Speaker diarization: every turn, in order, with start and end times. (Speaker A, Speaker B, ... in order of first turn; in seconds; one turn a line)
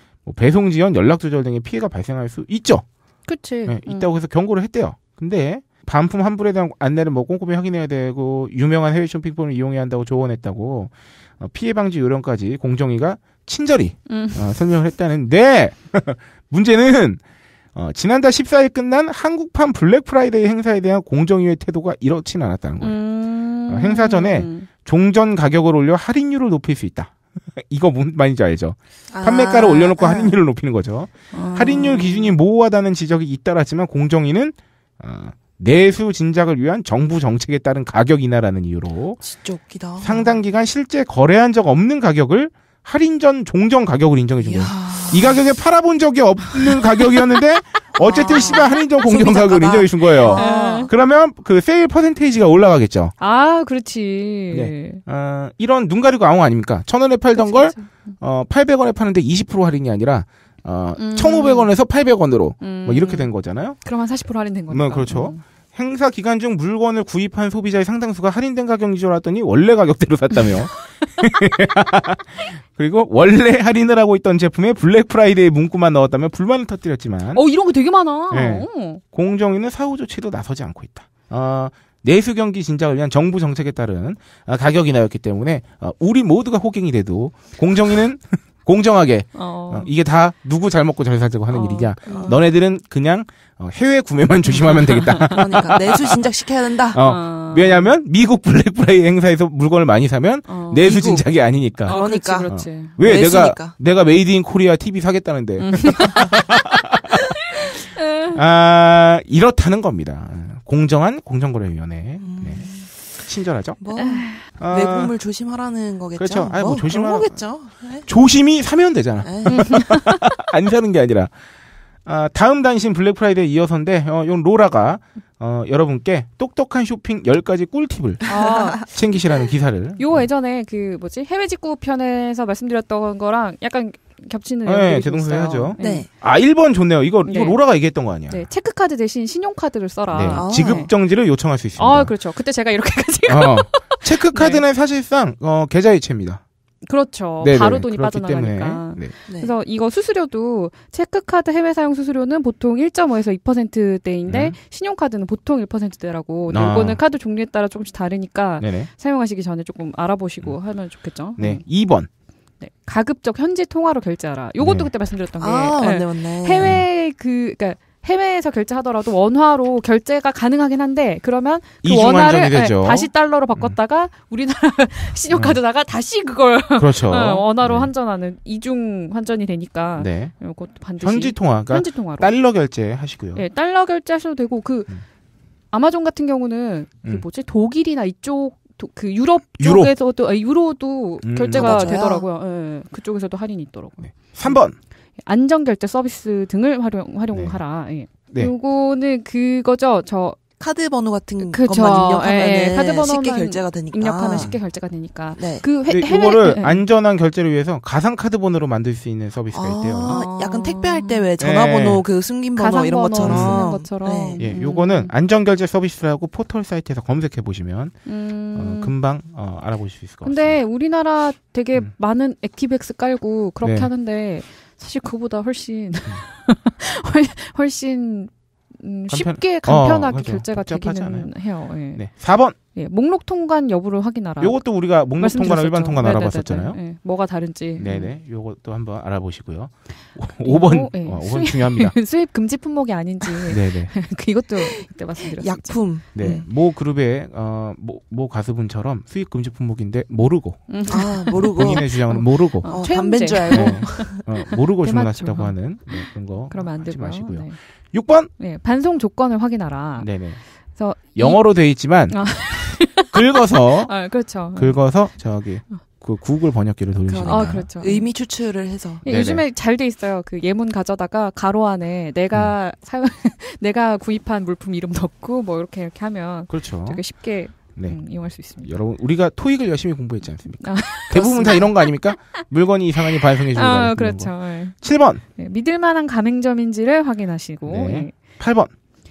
Speaker A: 0.2-2.8
Speaker B: 3.3-4.1
Speaker A: 3.6-17.2
Speaker B: 14.1-14.5
Speaker A: 17.7-23.0
Speaker B: 22.8-24.7
Speaker A: 23.7-39.2
Speaker C: 29.1-30.4
Speaker C: 31.3-32.1
Speaker C: 39.2-40.4
Speaker A: 40.0-53.1
Speaker C: 44.4-45.4
Speaker C: 48.0-50.9
Speaker B: 48.0-48.7
Speaker B: 50.2-50.9
Speaker B: 53.2-55.0
Speaker A: 54.5-63.8
Speaker B: 57.3-57.9
Speaker B: 61.0-61.7
Speaker B: 62.6-63.3
Speaker B: 63.8-65.4
Speaker A: 64.7-77.4
Speaker B: 70.5-70.8
Speaker B: 77.3-79.0
Speaker A: 78.3-96.2
Speaker B: 89.3-89.9
Speaker B: 91.5-92.3
Speaker C: 92.0-92.4
Speaker B: 94.6-95.1
Speaker C: 95.3-97.0
Speaker A: 96.9-107.7
Speaker B: 97.0-97.9
Speaker B: 100.5-102.9
Speaker C: 101.8-103.7
Speaker B: 105.6-106.3
Speaker B: 108.0-108.4
Speaker A: 108.3-113.8
Speaker C: 112.2-112.9
Speaker C: 113.8-118.1
Speaker B: 114.0-114.4
Speaker A: 114.6-115.1
Speaker A: 116.2-117.5
Speaker A: 118.0-121.3
Speaker C: 119.2-119.8
Speaker B: 119.5-120.1
Speaker A: 122.0-130.3
Speaker B: 128.3-129.1
Speaker C: 128.3-128.8
Speaker B: 130.0-136.1
Speaker A: 134.6-138.4
Speaker C: 135.8-136.1
Speaker B: 137.2-137.6
Speaker B: 138.3-140.9
Speaker A: 140.1-142.1
Speaker C: 140.2-140.9
Speaker B: 141.8-144.6
Speaker A: 143.3-146.4
Speaker B: 146.8-161.6
Speaker A: 147.4-149.1
Speaker C: 149.3-149.5
Speaker A: 154.3-154.6
Speaker A: 156.5-157.0
Speaker A: 158.6-158.9
Speaker A: 161.4-162.1
Speaker B: 162.6-182.3
Speaker A: 164.6-164.9
Speaker C: 165.4-166.8
Speaker A: 171.8-173.7
Speaker A: 175.3-175.6
Speaker A: 176.8-177.9
Speaker A: 180.0-180.3
Speaker A: 181.0-183.4
Speaker B: 183.3-184.9
Speaker B: 185.7-194.6
Speaker A: 189.6-189.9
Speaker A: 191.2-191.9
Speaker C: 191.5-192.2
Speaker A: 194.0-194.7
Speaker B: 195.2-200.4
Speaker A: 197.3-197.6
Speaker C: 200.6-204.5
Speaker B: 201.4-206.8
Speaker C: 205.4-205.6
Speaker A: 205.9-210.2
Speaker C: 209.5-214.4
Speaker B: 210.0-211.3
Speaker A: 211.4-212.0
Speaker B: 212.6-215.1
Speaker A: 213.2-213.6
Speaker A: 214.4-217.9
Speaker B: 218.1-218.9
Speaker A: 218.5-220.6
Speaker B: 220.2-232.1
Speaker A: 223.6-223.9
Speaker A: 229.1-231.3
Speaker A: 231.9-232.6
Speaker B: 232.7-238.1
Speaker A: 234.4-236.8
Speaker A: 237.8-241.9
Speaker B: 240.4-245.8
Speaker A: 243.5-243.9
Speaker C: 244.6-246.4
Speaker A: 246.1-252.8
Speaker B: 250.7-257.6
Speaker C: 250.9-251.8
Speaker C: 252.6-254.2
Speaker A: 253.5-258.3
Speaker B: 258.4-260.1
Speaker A: 260.0-260.4
Speaker B: 260.8-264.8
Speaker A: 261.1-262.2
Speaker A: 263.1-263.9
Speaker A: 264.5-267.7
Speaker C: 267.0-269.0
Speaker B: 267.3-268.1
Speaker B: 269.0-278.8
Speaker A: 269.1-269.4
Speaker A: 276.5-277.0
Speaker A: 278.6-285.2
Speaker B: 280.6-281.9
Speaker B: 283.5-284.8
Speaker B: 285.4-288.2
Speaker A: 287.6-288.7